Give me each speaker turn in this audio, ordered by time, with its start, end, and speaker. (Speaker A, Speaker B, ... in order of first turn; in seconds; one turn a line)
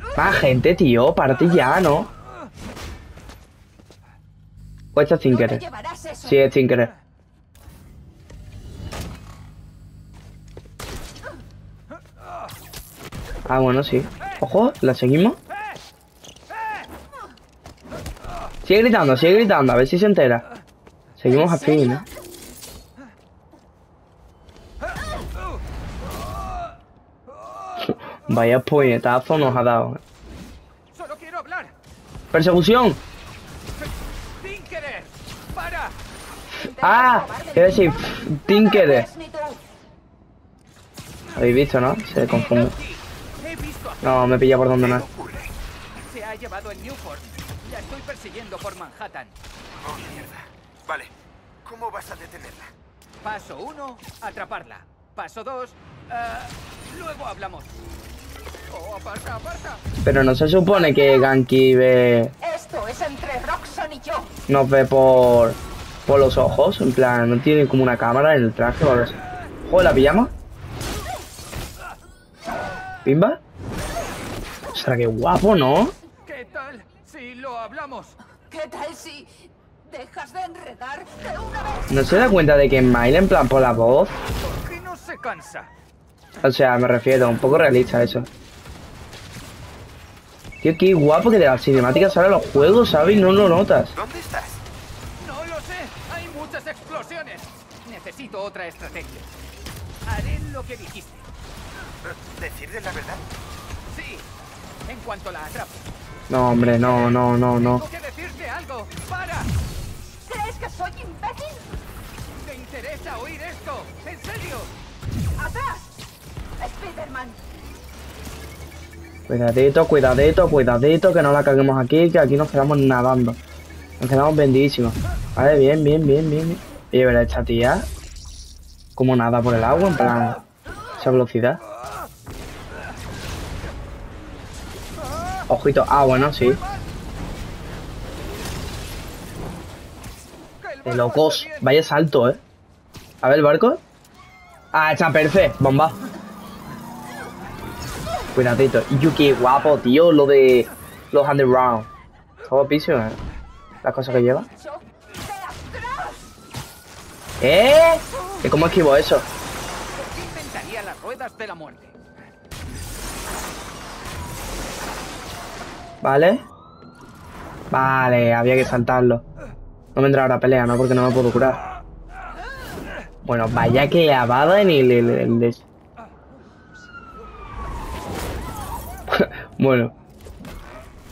Speaker A: 0.2-2.1
Speaker A: 4.9-5.6
Speaker B: 5.3-6.4
Speaker A: 6.2-6.9
Speaker A: 13.5-15.4
Speaker A: 18.6-20.4
Speaker A: 21.2-22.1
Speaker B: 21.2-22.0
Speaker A: 27.8-30.0
Speaker C: 30.9-31.7
Speaker A: 32.3-33.0
Speaker C: 33.8-36.0
Speaker B: 36.5-37.9
Speaker A: 36.5-39.1
Speaker B: 38.5-39.6
Speaker A: 41.3-42.7
Speaker C: 42.2-44.3
Speaker A: 44.0-45.1
Speaker D: 44.8-45.5
Speaker C: 46.0-49.4
Speaker D: 49.8-51.1
Speaker D: 51.6-52.7
Speaker C: 53.2-57.8
Speaker C: 58.7-59.8
Speaker A: 60.0-62.4
Speaker B: 62.4-64.3
Speaker A: 64.5-70.3
Speaker A: 73.0-73.4
Speaker A: 74.7-75.9
Speaker C: 76.2-78.2
Speaker B: 78.5-81.9
Speaker A: 81.9-84.1
Speaker C: 84.4-85.7
Speaker A: 86.4-88.3
Speaker A: 90.6-93.9
Speaker D: 93.9-94.6
Speaker C: 95.2-99.3
Speaker C: 100.0-101.3
Speaker D: 102.0-103.2
Speaker C: 103.9-104.3
Speaker C: 104.8-105.9
Speaker A: 106.3-107.8
Speaker C: 106.8-109.5
Speaker B: 110.2-111.7
Speaker C: 112.3-114.7
Speaker B: 115.4-115.9
Speaker B: 116.6-117.4
Speaker A: 119.3-123.4
Speaker A: 124.0-127.9
Speaker A: 128.9-130.4
Speaker A: 131.0-131.6
Speaker A: 135.5-136.6
Speaker C: 136.2-136.8
Speaker C: 140.6-141.7
Speaker A: 140.8-142.4
Speaker A: 143.2-143.8
Speaker A: 144.7-146.0
Speaker A: 148.3-151.9
Speaker A: 152.4-153.2
Speaker A: 153.8-154.5
Speaker B: 154.3-156.3
Speaker A: 157.4-159.3
Speaker C: 159.9-161.9
Speaker A: 166.0-166.4
Speaker A: 167.7-169.2
Speaker A: 169.9-171.6
Speaker A: 173.2-175.6
Speaker A: 179.1-179.9